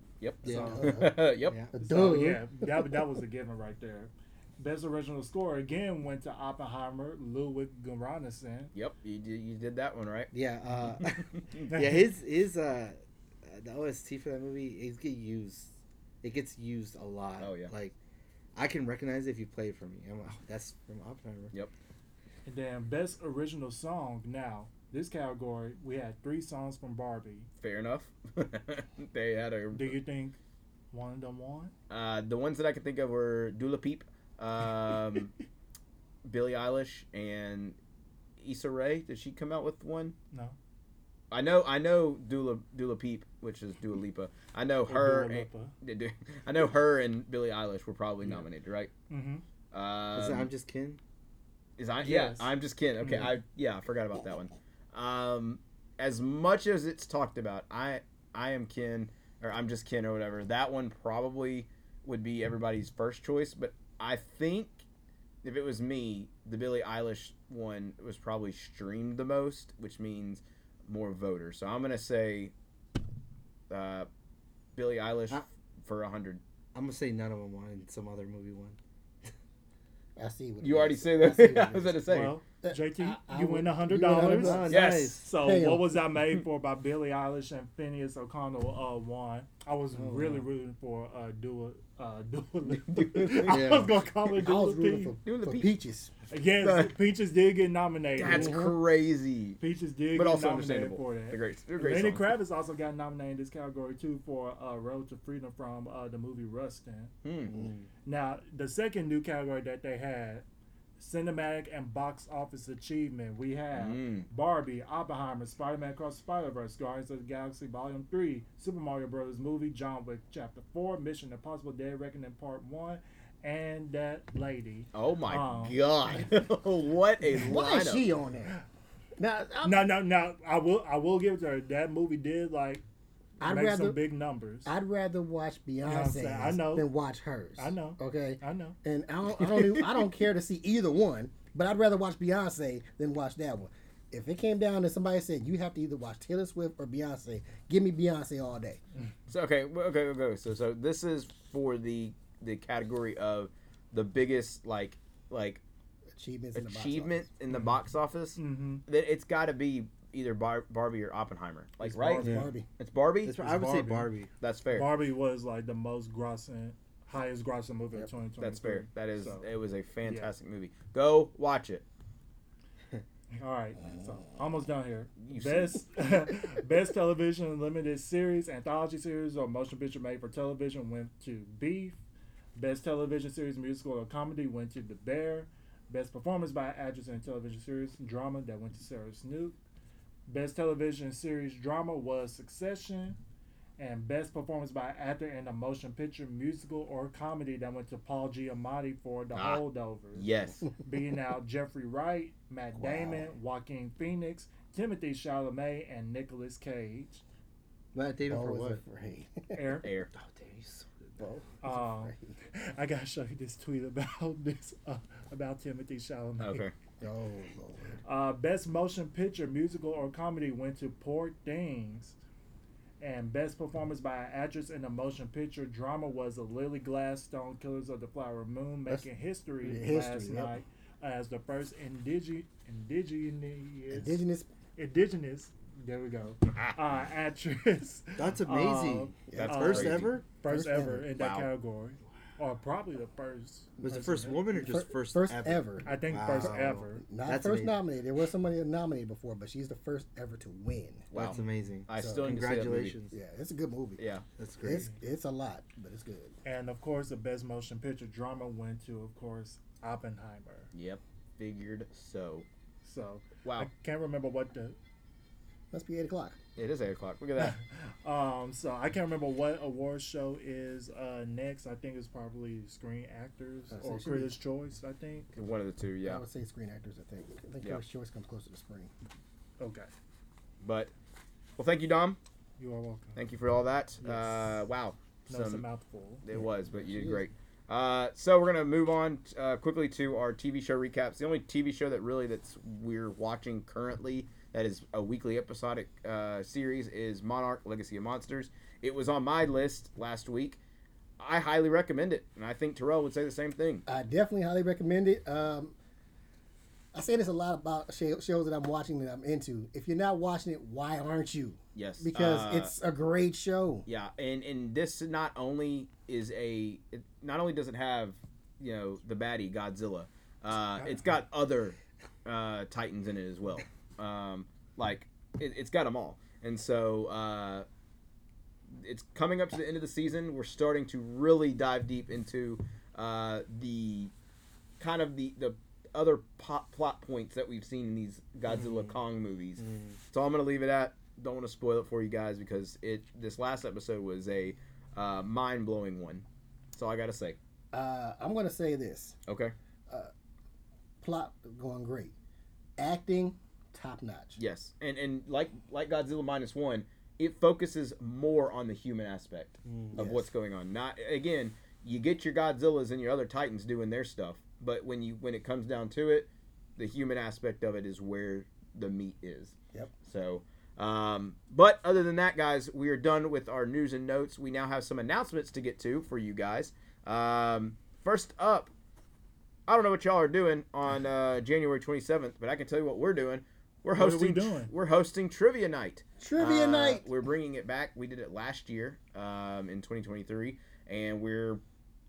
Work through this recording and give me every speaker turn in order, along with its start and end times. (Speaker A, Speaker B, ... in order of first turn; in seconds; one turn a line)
Speaker A: 0.2-1.6
Speaker B: 0.4-0.9
Speaker C: 0.4-0.9
Speaker D: 0.5-1.2
Speaker C: 1.5-1.7
Speaker D: 1.7-3.0
Speaker B: 1.8-8.7
Speaker A: 8.8-10.3
Speaker C: 10.3-17.9
Speaker A: 11.1-11.7
Speaker B: 11.7-12.1
Speaker A: 17.4-17.7
Speaker C: 18.6-21.5
Speaker B: 22.5-27.5
Speaker A: 27.6-30.0
Speaker B: 29.8-30.4
Speaker B: 30.9-31.7
Speaker A: 31.9-35.3
Speaker A: 36.2-37.8
Speaker A: 38.4-40.2
Speaker A: 41.3-48.9
Speaker B: 44.9-45.7
Speaker B: 49.1-49.4
Speaker A: 49.7-50.5
Speaker C: 50.1-51.0
Speaker A: 51.8-64.8
Speaker B: 52.0-53.4
Speaker A: 65.4-72.5
Speaker A: 73.7-74.1
Speaker A: 74.8-76.4
Speaker C: 76.7-78.8
Speaker D: 80.2-82.0
Speaker A: 80.6-82.4
Speaker B: 82.1-95.2
Speaker D: 82.6-84.8
Speaker C: 84.3-85.3
Speaker A: 84.7-85.2
Speaker D: 85.3-86.0
Speaker C: 89.9-90.4
Speaker A: 92.7-93.8
Speaker C: 93.5-94.0
Speaker D: 94.3-96.1
Speaker A: 95.2-95.7
Speaker B: 96.3-98.6
Speaker A: 96.6-96.9
Speaker A: 98.2-99.6
Speaker D: 98.2-98.8
Speaker B: 99.6-107.1
Speaker A: 100.1-102.3
Speaker A: 107.2-107.5
Speaker C: 107.5-107.9
Speaker B: 108.1-110.5
Speaker B: 111.0-126.3
Speaker A: 113.7-114.3
Speaker A: 124.9-128.1
Speaker D: 127.3-128.6
Speaker D: 129.2-129.9
Speaker B: 129.6-132.8
Speaker D: 133.4-134.0
Speaker B: 133.4-134.7
Speaker D: 134.7-148.8
Speaker B: 135.8-136.9
Speaker B: 137.6-138.8
Speaker A: 149.3-155.6
Speaker D: 156.1-157.3
Speaker A: 156.5-163.4
Speaker B: 158.4-158.8
Speaker B: 161.8-162.5
Speaker D: 162.1-162.7
Speaker C: 162.2-162.5
Speaker C: 163.2-164.3
Speaker B: 163.4-164.1
Speaker A: 164.4-164.9
Speaker B: 164.7-169.5
Speaker A: 168.4-171.8
Speaker B: 170.0-170.3
Speaker B: 173.4-182.0
Speaker A: 175.2-175.8
Speaker B: 182.6-189.6
Speaker B: 190.3-193.2
Speaker B: 193.8-207.2
Speaker A: 199.3-199.6
Speaker A: 200.2-200.7
Speaker D: 202.8-203.2
Speaker C: 207.9-208.8
Speaker D: 208.3-209.6
Speaker B: 209.5-209.9
Speaker A: 209.8-210.1
Speaker C: 210.1-211.3
Speaker D: 211.2-212.4
Speaker B: 211.6-216.7
Speaker A: 216.4-216.7
Speaker D: 217.0-218.0
Speaker B: 218.0-222.2
Speaker B: 223.0-234.2
Speaker D: 229.6-230.6
Speaker D: 233.9-234.5
Speaker B: 234.8-244.4
Speaker A: 236.5-236.7
Speaker C: 238.2-240.2
Speaker D: 239.3-239.9
Speaker A: 239.3-240.1
Speaker D: 240.5-241.1
Speaker A: 241.2-241.5
Speaker C: 243.8-247.8
Speaker D: 243.8-251.1
Speaker B: 245.8-247.0
Speaker A: 251.1-253.0
Speaker C: 251.2-253.2
Speaker D: 252.0-252.5
Speaker D: 253.1-254.0
Speaker A: 254.0-254.2
Speaker C: 254.4-254.9
Speaker D: 254.6-256.4
Speaker B: 254.7-255.0
Speaker B: 256.4-260.7
Speaker A: 260.7-262.5
Speaker B: 262.8-264.8
Speaker A: 263.4-263.7
Speaker D: 265.7-266.4
Speaker A: 266.6-267.6
Speaker B: 267.4-275.3
Speaker D: 273.7-274.4
Speaker A: 275.4-276.2
Speaker D: 276.0-278.9
Speaker B: 279.6-279.9
Speaker A: 280.6-280.9
Speaker A: 281.6-282.2
Speaker B: 282.6-283.2
Speaker A: 283.2-285.6
Speaker B: 284.0-284.5
Speaker B: 285.3-286.2
Speaker A: 286.2-300.6
Speaker D: 286.3-287.3
Speaker A: 301.2-303.8
Speaker D: 303.9-305.8
Speaker D: 306.9-313.9
Speaker A: 311.8-312.7
Speaker A: 313.9-327.7
Speaker A: 328.7-334.1
Speaker A: 334.8-347.4
Speaker C: 338.5-339.0
Speaker C: 339.6-340.0
Speaker D: 347.7-349.2
Speaker A: 349.3-349.5
Speaker D: 351.0-352.1
Speaker D: 352.8-354.4
Speaker A: 354.4-378.7
Speaker C: 359.6-360.0
Speaker D: 359.9-360.3
Speaker A: 379.7-391.6
Speaker B: 383.9-384.7
Speaker D: 386.2-387.1